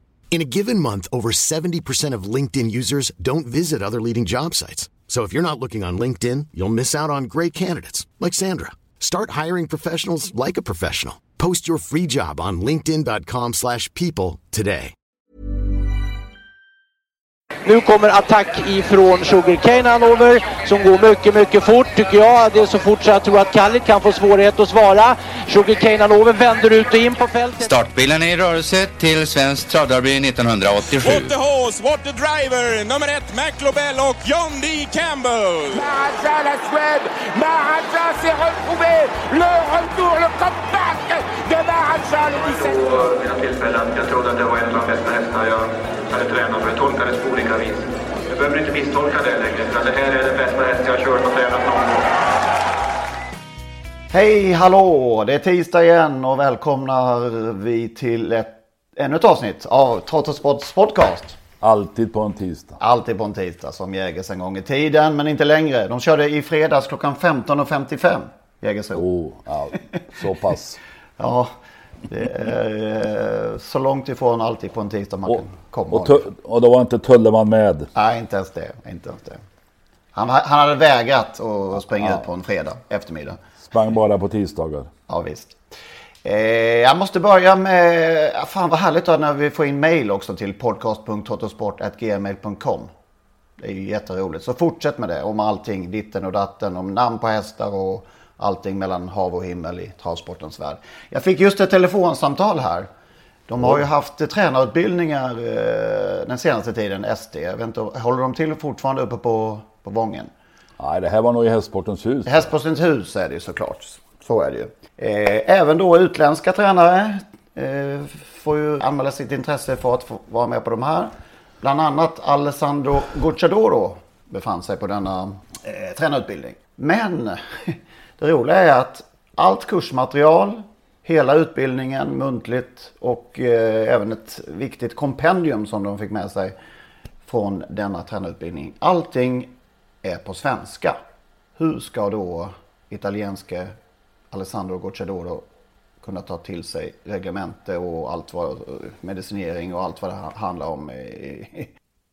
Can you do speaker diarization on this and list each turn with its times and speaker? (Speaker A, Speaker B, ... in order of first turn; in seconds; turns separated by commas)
Speaker A: 0.3-14.9, Speaker B: 17.6-27.7, Speaker C: 27.6-31.3, Speaker D: 31.0-35.8, Speaker E: 35.7-42.9, Speaker F: 42.3-52.2, Speaker G: 54.1-61.4, Speaker H: 61.6-62.8, Speaker G: 62.8-69.0, Speaker H: 68.9-70.8, Speaker G: 71.2-71.5, Speaker G: 72.1-76.2, Speaker H: 75.3-77.9, Speaker G: 77.9-79.4, Speaker G: 80.1-83.4, Speaker H: 83.7-84.9, Speaker G: 85.1-85.6, Speaker G: 86.2-92.9, Speaker G: 93.6-102.9, Speaker G: 103.5-110.3, Speaker H: 110.8-112.5, Speaker G: 112.2-136.6, Speaker G: 137.2-139.5, Speaker G: 140.0-141.0, Speaker G: 141.6-143.7, Speaker G: 144.3-145.4, Speaker G: 146.0-151.7